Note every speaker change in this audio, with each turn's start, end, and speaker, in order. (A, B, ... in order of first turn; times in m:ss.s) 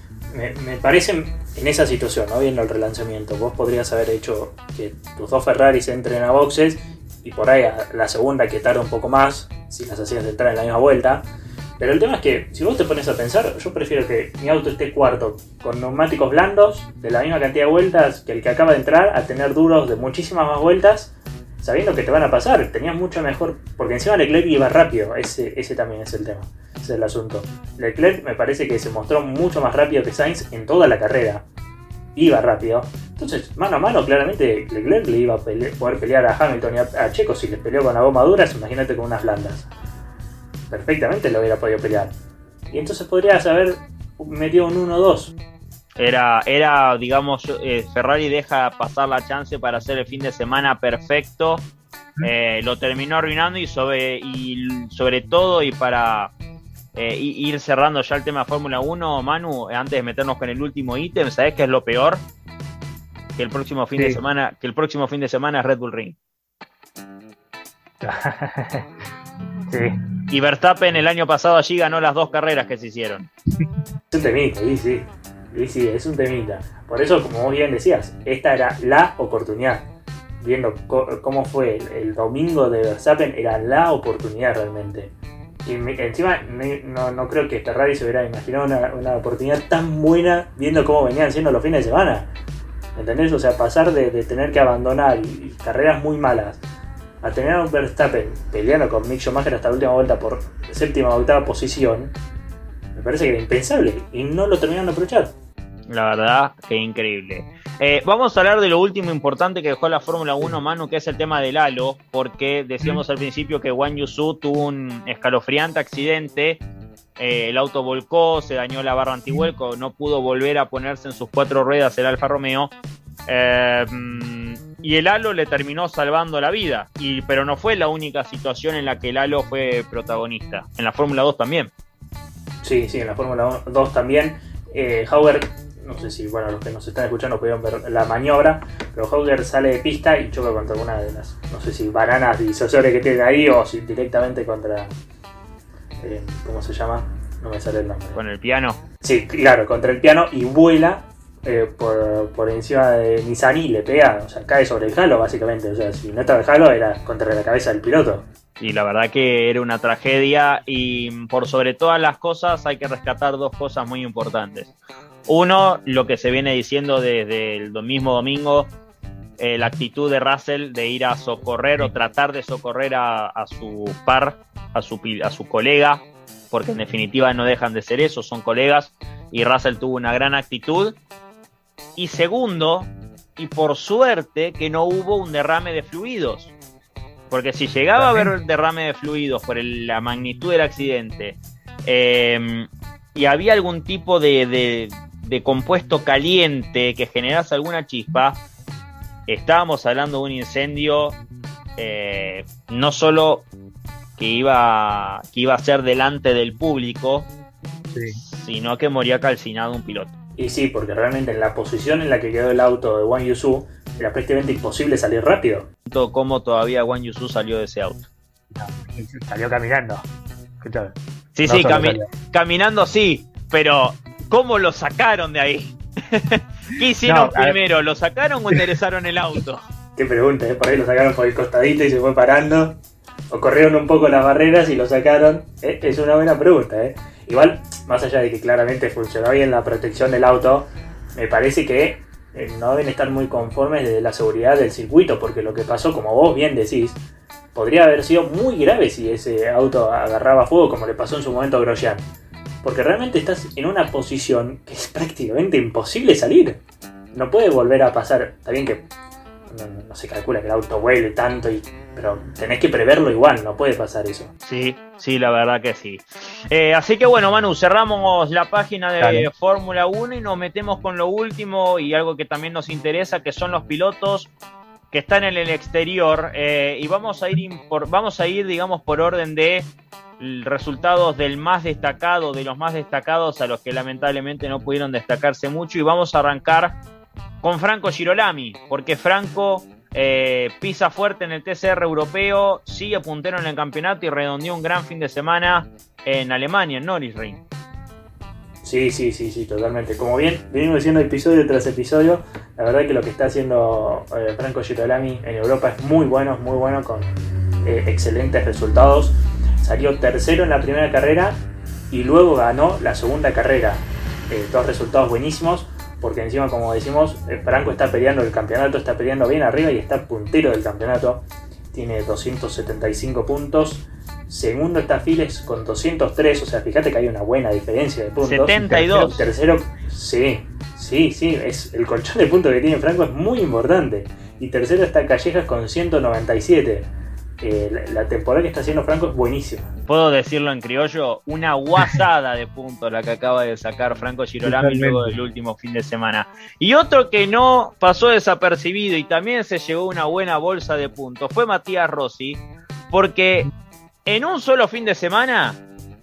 0:00.3-0:11.2 A
0:11.8-0:31.4 A
0:32.1-0:39.7 A
0:40.7-0:42.1 A
0:42.7-0:45.3 A
0:46.0-0:51.7 B
0:52.2-0:56.3 B
0:56.9-1:02.2 B
1:03.4-1:06.2 B
1:04.0-1:04.2 A
1:08.0-1:08.9 A
1:09.7-1:10.0 A
1:10.3-1:13.3 B
1:14.1-1:19.9 A
1:20.4-1:25.1 A
1:25.6-1:32.3 A
1:33.0-1:36.6 A
1:37.2-1:42.1 A
1:42.9-1:45.3 A
1:45.9-1:56.6 B
1:57.2-2:02.7 B
2:03.3-2:11.7 B
2:12.6-2:24.9 A
2:26.0-2:28.2 A
2:28.1-2:28.8 B
2:29.0-2:38.2 A
2:38.6-2:44.7 B
2:45.3-2:48.7 B
2:49.4-3:01.0 B
3:02.0-3:06.5 B
3:07.3-3:18.4 B
3:08.0-3:08.3 A
3:19.3-3:21.2 B
3:21.8-3:23.5 B
3:24.2-3:27.3 B
3:27.9-3:28.2 A
3:28.1-3:30.1 B
3:30.4-3:35.7 A
3:35.8-3:38.1 B
3:38.5-3:40.1 A
3:40.6-3:42.1 A
3:41.3-3:49.6 B
3:47.0-3:47.6 A
3:50.0-3:52.8 A
3:53.3-4:07.0 A
4:07.5-4:12.0 A
4:12.6-4:16.6 A
4:17.1-4:18.9 A
4:19.5-4:24.3 A
4:24.4-4:34.3 B
4:29.0-4:29.3 A
4:34.9-4:46.8 B
4:47.4-4:57.4 B
4:58.6-5:36.9 A
5:28.2-5:29.2 B
5:37.4-5:39.7 A
5:39.9-5:53.5 B
5:44.4-5:45.2 A
5:54.0-5:55.6 B